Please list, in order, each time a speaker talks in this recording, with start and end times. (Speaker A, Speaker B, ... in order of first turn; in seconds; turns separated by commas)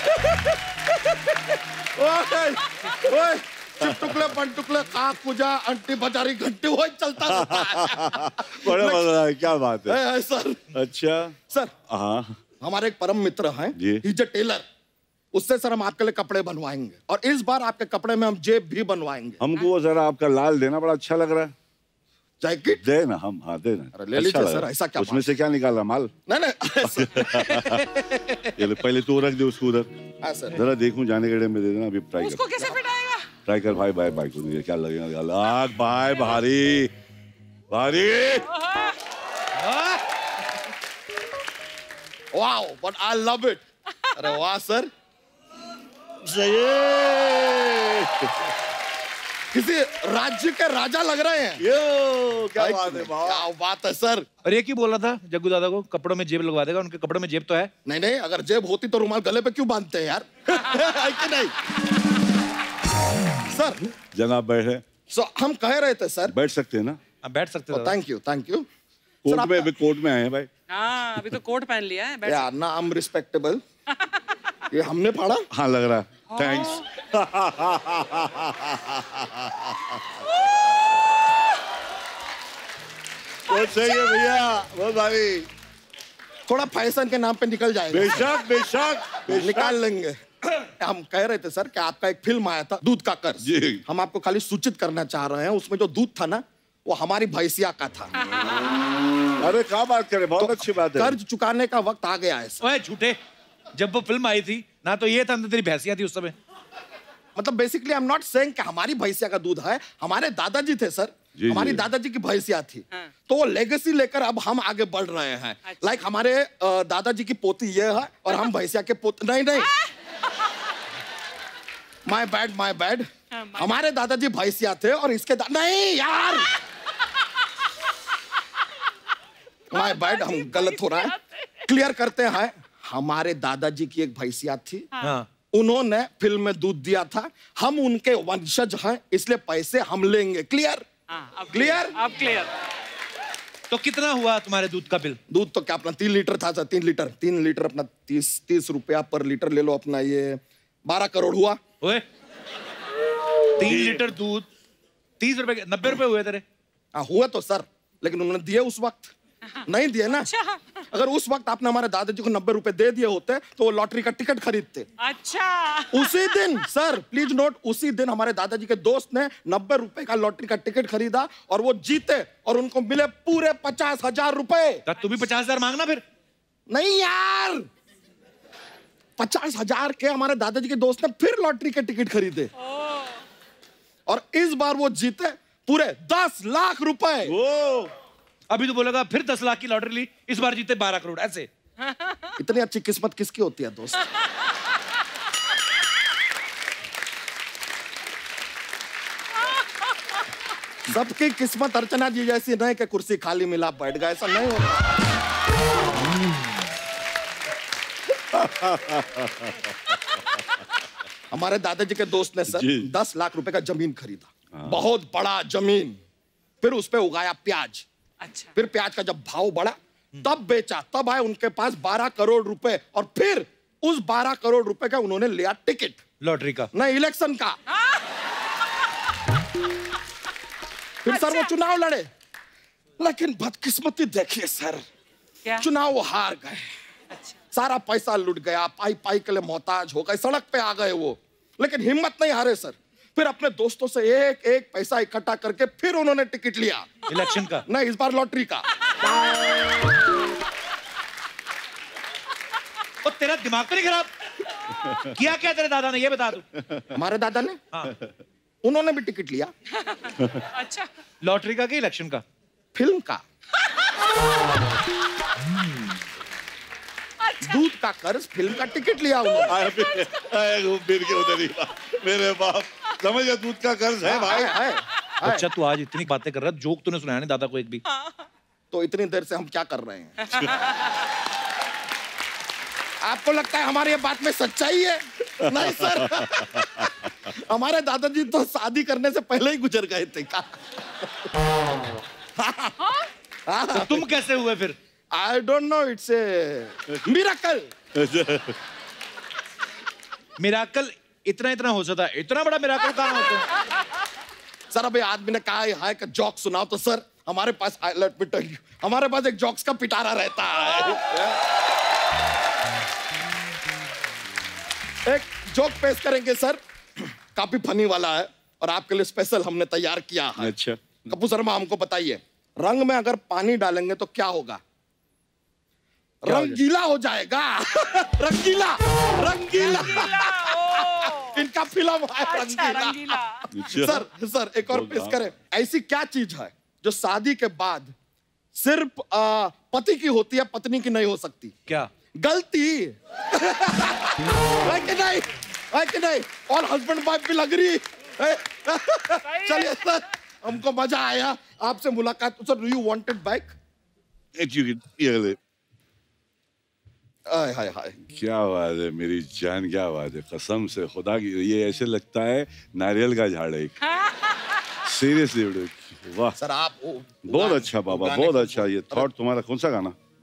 Speaker A: 2.0-9.1, Speaker B: 3.8-4.2, Speaker B: 7.2-10.0, Speaker A: 9.9-10.6, Speaker B: 10.7-12.4, Speaker A: 11.5-11.8, Speaker A: 12.6-14.6, Speaker B: 13.8-14.1, Speaker A: 15.3-19.4, Speaker B: 19.4-21.5, Speaker A: 22.4-22.8, Speaker B: 22.8-26.2, Speaker A: 23.9-25.2, Speaker A: 26.3-27.7, Speaker B: 26.8-27.9, Speaker B: 28.6-29.9, Speaker A: 30.2-30.6, Speaker B: 30.5-32.8, Speaker C: 32.2-33.3, Speaker B: 33.5-36.9, Speaker B: 37.7-38.5, Speaker C: 38.5-38.9, Speaker D: 39.6-40.0, Speaker A: 42.3-43.6, Speaker A: 44.2-44.9, Speaker B: 46.2-48.3, Speaker A: 49.5-51.6, Speaker B: 51.6-53.5, Speaker A: 52.6-54.3, Speaker D: 54.5-57.7, Speaker A: 57.9-61.5, Speaker A: 63.5-63.9, Speaker B: 64.1-64.8, Speaker A: 65.1-66.3, Speaker B: 66.3-67.0, Speaker D: 67.2-68.0, Speaker A: 67.7-68.7, Speaker B: 69.2-70.5, Speaker A: 69.3-69.7, Speaker C: 70.7-72.5, Speaker A: 72.2-73.6, Speaker A: 74.7-75.5, Speaker B: 75.5-80.0, Speaker C: 76.3-76.8, Speaker B: 83.5-85.5, Speaker A: 86.5-88.3, Speaker B: 87.9-89.8, Speaker A: 89.3-98.1, Speaker B: 93.4-93.8, Speaker B: 99.4-101.2, Speaker A: 100.4-102.6, Speaker D: 102.6-103.2, Speaker D: 103.8-106.3, Speaker A: 107.4-119.7, Speaker B: 111.3-111.8, Speaker C: 115.7-116.0, Speaker A: 122.1-126.5, Speaker C: 123.3-123.8, Speaker A: 129.7-131.1, Speaker C: 129.7-131.6, Speaker A: 131.7-134.9, Speaker D: 135.0-135.3, Speaker A: 135.5-140.8, Speaker C: 141.1-142.5, Speaker A: 141.5-142.0, Speaker D: 143.7-145.2, Speaker A: 145.3-151.6, Speaker D: 153.6-154.5, Speaker B: 153.6-154.0, Speaker D: 155.2-156.4, Speaker A: 156.9-159.1, Speaker A: 159.7-160.3, Speaker C: 160.3-160.6, Speaker A: 160.9-164.9, Speaker C: 165.0-166.4, Speaker A: 165.9-174.8, Speaker D: 174.9-176.0, Speaker A: 176.7-177.7, Speaker A: 179.2-182.5, Speaker A: 184.1-187.3, Speaker B: 187.2-187.9, Speaker D: 188.5-191.5, Speaker A: 192.4-194.1, Speaker A: 200.9-205.0, Speaker B: 208.3-209.7, Speaker A: 211.3-216.0, Speaker B: 212.5-212.9, Speaker B: 214.5-214.8, Speaker A: 216.6-217.9, Speaker C: 218.2-218.5, Speaker A: 218.6-226.0, Speaker D: 226.2-226.7, Speaker A: 226.7-227.6, Speaker A: 231.1-232.1, Speaker C: 231.1-231.5, Speaker A: 233.0-234.8, Speaker A: 235.6-236.7, Speaker C: 237.1-237.4, Speaker A: 237.5-247.0, Speaker D: 247.1-247.7, Speaker A: 247.7-248.7, Speaker D: 253.1-254.1, Speaker D: 255.1-256.5, Speaker A: 256.9-257.6, Speaker A: 258.6-259.5, Speaker C: 259.8-260.9, Speaker D: 261.2-262.2, Speaker A: 262.8-263.2, Speaker C: 267.2-267.6, Speaker A: 267.4-269.5, Speaker B: 269.4-274.6, Speaker C: 269.4-270.1, Speaker A: 274.0-275.5, Speaker D: 275.2-277.8, Speaker A: 278.7-280.2, Speaker A: 283.0-291.1, Speaker B: 286.2-286.8, Speaker A: 292.4-292.8, Speaker A: 293.5-294.1, Speaker D: 293.7-294.8, Speaker A: 295.1-297.7, Speaker B: 297.9-298.6, Speaker D: 300.4-303.4, Speaker A: 304.7-311.3, Speaker A: 315.1-320.5, Speaker B: 320.4-321.0, Speaker A: 321.1-324.6, Speaker A: 326.2-337.9, Speaker B: 326.3-326.6, Speaker C: 329.8-331.4, Speaker C: 332.2-333.5, Speaker B: 333.5-334.1, Speaker B: 334.7-335.2, Speaker A: 338.5-341.5, Speaker A: 342.2-353.6, Speaker C: 349.3-349.9, Speaker B: 354.4-355.4, Speaker A: 357.3-358.0, Speaker B: 358.1-363.8, Speaker B: 364.8-366.4, Speaker A: 366.4-369.1, Speaker B: 367.2-370.0